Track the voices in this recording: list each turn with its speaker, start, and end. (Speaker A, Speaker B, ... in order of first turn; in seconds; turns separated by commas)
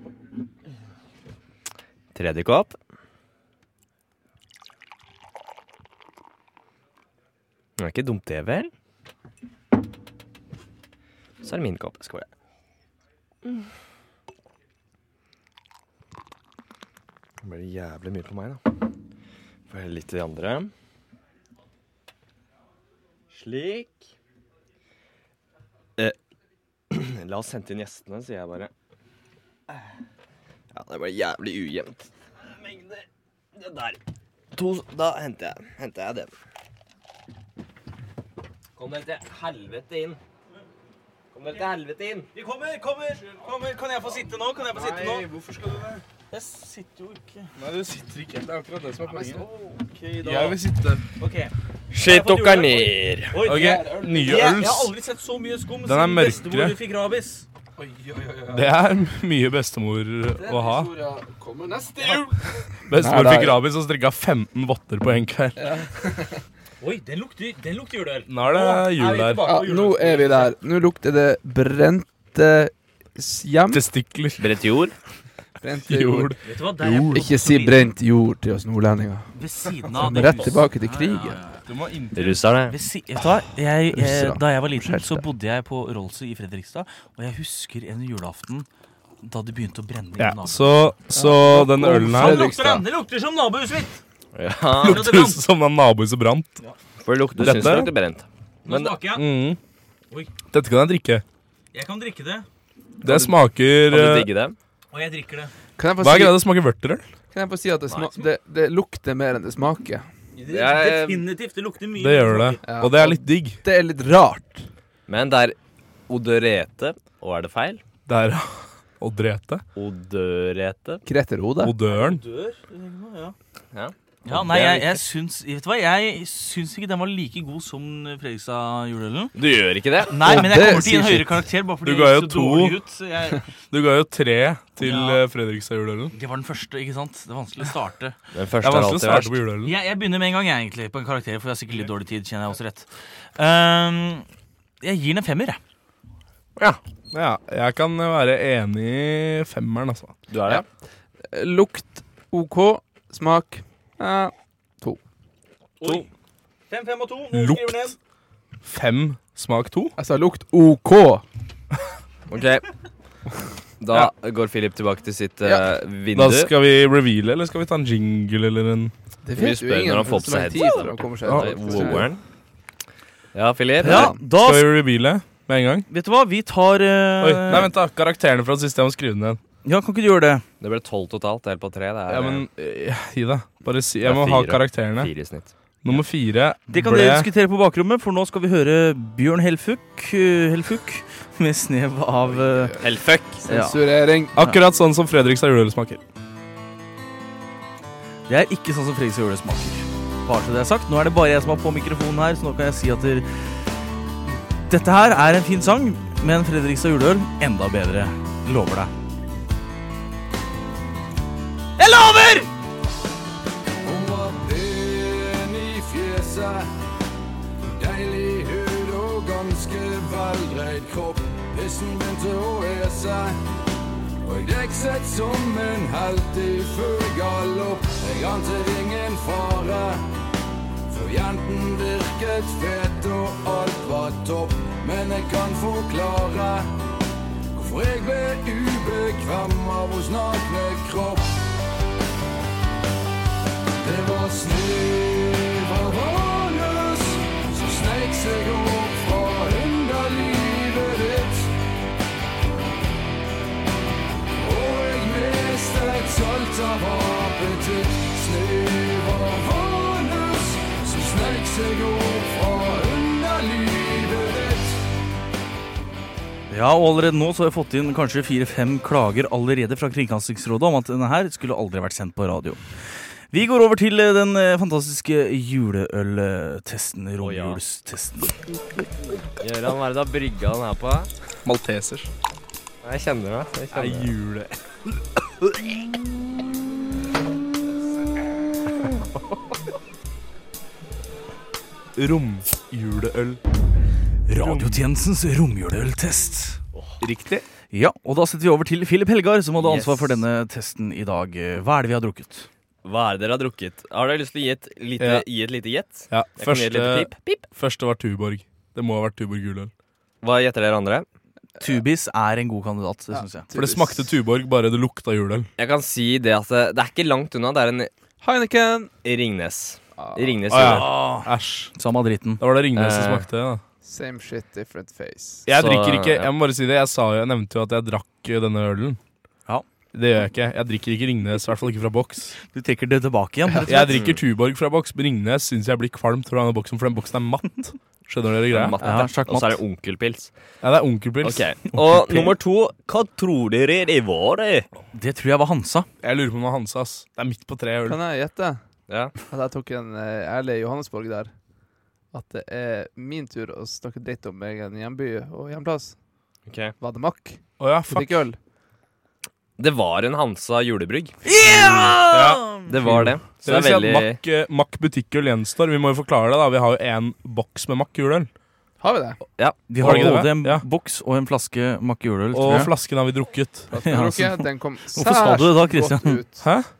Speaker A: 2.1-2.8, Speaker A: 7.8-8.7, Speaker A: 11.4-12.3, Speaker A: 13.4-13.7, Speaker A: 17.4-18.7, Speaker A: 19.7-20.7, Speaker A: 23.3-24.1, Speaker A: 26.9-28.7, Speaker A: 30.7-34.0, Speaker A: 34.5-36.3, Speaker A: 38.8-40.2, Speaker A: 41.3-42.3, Speaker B: 42.3-45.3, Speaker C: 44.7-46.0, Speaker B: 46.3-47.5, Speaker C: 47.6-49.4, Speaker B: 49.1-50.6, Speaker C: 50.2-51.1, Speaker B: 51.2-57.5, Speaker A: 51.9-53.6, Speaker C: 53.4-54.9, Speaker C: 55.8-56.8, Speaker D: 57.8-58.6, Speaker C: 58.5-60.9, Speaker D: 60.4-62.4, Speaker C: 62.9-65.8, Speaker D: 62.9-63.6, Speaker D: 65.6-66.4, Speaker B: 66.8-70.6, Speaker C: 68.3-69.5, Speaker D: 69.4-73.9, Speaker C: 73.7-74.4, Speaker A: 74.4-74.9, Speaker D: 75.6-79.3, Speaker C: 75.8-77.2, Speaker B: 76.4-77.9, Speaker B: 79.3-81.6, Speaker D: 79.9-81.4, Speaker C: 81.7-82.3, Speaker A: 82.1-82.8, Speaker B: 82.7-88.7, Speaker D: 83.9-85.2, Speaker B: 89.2-90.9, Speaker C: 90.2-92.5, Speaker D: 91.1-92.9, Speaker B: 92.1-94.0, Speaker A: 94.3-95.2, Speaker C: 94.8-96.6, Speaker B: 94.8-95.4, Speaker A: 97.0-99.0, Speaker C: 97.4-97.9, Speaker B: 98.7-99.3, Speaker C: 99.1-99.6, Speaker C: 100.5-101.2, Speaker B: 101.7-102.5, Speaker C: 103.0-104.3, Speaker A: 103.0-104.6, Speaker B: 104.9-105.5, Speaker D: 105.8-106.5, Speaker C: 106.0-107.0, Speaker D: 107.3-110.1, Speaker B: 110.4-112.6, Speaker A: 110.5-111.3, Speaker C: 112.0-113.6, Speaker D: 112.6-114.7, Speaker A: 115.1-115.6, Speaker A: 116.1-117.8, Speaker C: 118.1-119.6, Speaker A: 119.8-121.0, Speaker D: 121.1-121.8, Speaker C: 121.6-122.2, Speaker B: 121.9-123.3, Speaker A: 123.7-125.0, Speaker B: 124.3-129.4, Speaker A: 129.3-130.4, Speaker B: 130.1-133.5, Speaker D: 130.2-131.4, Speaker C: 131.8-132.8, Speaker C: 133.7-136.1, Speaker B: 134.8-135.2, Speaker B: 136.1-138.2, Speaker A: 138.3-139.4, Speaker C: 138.6-139.8, Speaker B: 139.6-144.3, Speaker B: 144.8-145.6, Speaker C: 147.1-150.2, Speaker A: 150.3-150.6, Speaker D: 151.3-155.0, Speaker B: 155.8-156.1, Speaker B: 156.7-158.0, Speaker C: 157.3-158.0, Speaker C: 158.6-160.0, Speaker D: 160.0-161.2, Speaker A: 162.3-162.7, Speaker A: 163.8-166.5, Speaker D: 165.4-165.7, Speaker C: 166.1-168.9, Speaker D: 169.2-172.1, Speaker A: 169.4-172.2, Speaker B: 170.5-172.0, Speaker A: 173.3-174.1, Speaker D: 173.8-174.2, Speaker B: 173.8-174.8, Speaker C: 174.3-175.9, Speaker B: 175.9-177.7, Speaker C: 177.2-179.4, Speaker B: 179.6-180.4, Speaker A: 180.6-182.5, Speaker C: 182.1-185.1, Speaker A: 184.0-185.5, Speaker C: 185.8-187.3, Speaker B: 186.7-192.8, Speaker D: 192.2-194.4, Speaker A: 192.8-193.5, Speaker B: 193.5-193.8, Speaker C: 194.4-196.0, Speaker B: 198.3-203.5, Speaker B: 204.7-208.9, Speaker B: 211.8-212.5, Speaker E: 213.8-216.7, Speaker E: 217.8-223.4, Speaker E: 224.2-230.0, Speaker E: 230.9-236.7, Speaker E: 237.5-241.4, Speaker E: 243.8-251.5, Speaker E: 254.4-264.8, Speaker B: 266.5-278.4, Speaker A: 277.2-277.6, Speaker A: 279.4-281.1, Speaker C: 281.4-282.1, Speaker A: 282.8-284.1, Speaker C: 283.7-285.7, Speaker C: 292.0-293.4, Speaker B: 294.3-296.6, Speaker C: 294.3-294.8, Speaker C: 297.0-297.4, Speaker B: 297.7-302.5, Speaker A: 299.6-300.2, Speaker A: 302.9-307.2, Speaker C: 305.0-305.2, Speaker C: 306.1-309.7, Speaker A: 310.2-311.1, Speaker B: 311.6-313.5, Speaker D: 313.1-314.1, Speaker C: 313.5-315.5, Speaker A: 315.6-317.9, Speaker D: 318.2-318.9, Speaker A: 319.0-320.9, Speaker D: 320.0-320.5, Speaker C: 320.5-321.7, Speaker B: 320.7-322.4, Speaker C: 322.4-323.6, Speaker A: 322.8-323.3, Speaker D: 323.8-325.5, Speaker C: 325.5-329.0, Speaker A: 325.5-326.3, Speaker C: 329.9-332.4, Speaker B: 332.4-334.0, Speaker C: 333.6-338.8, Speaker A: 333.8-334.2, Speaker A: 338.5-340.3, Speaker B: 338.8-339.6, Speaker C: 340.6-342.4, Speaker A: 341.2-344.7, Speaker B: 344.9-345.9, Speaker C: 346.0-348.0, Speaker D: 347.8-348.6, Speaker A: 348.9-349.1, Speaker D: 349.3-351.3, Speaker D: 352.1-355.9, Speaker A: 356.5-356.8, Speaker D: 356.8-358.4, Speaker C: 357.6-358.2, Speaker A: 359.6-361.1, Speaker B: 361.2-362.7, Speaker C: 362.1-368.3, Speaker A: 362.6-364.2, Speaker D: 368.8-369.2, Speaker A: 369.4-370.1, Speaker B: 369.7-372.7, Speaker C: 369.8-370.6, Speaker C: 372.3-373.7, Speaker D: 373.7-376.4, Speaker B: 373.8-376.2, Speaker C: 376.4-376.7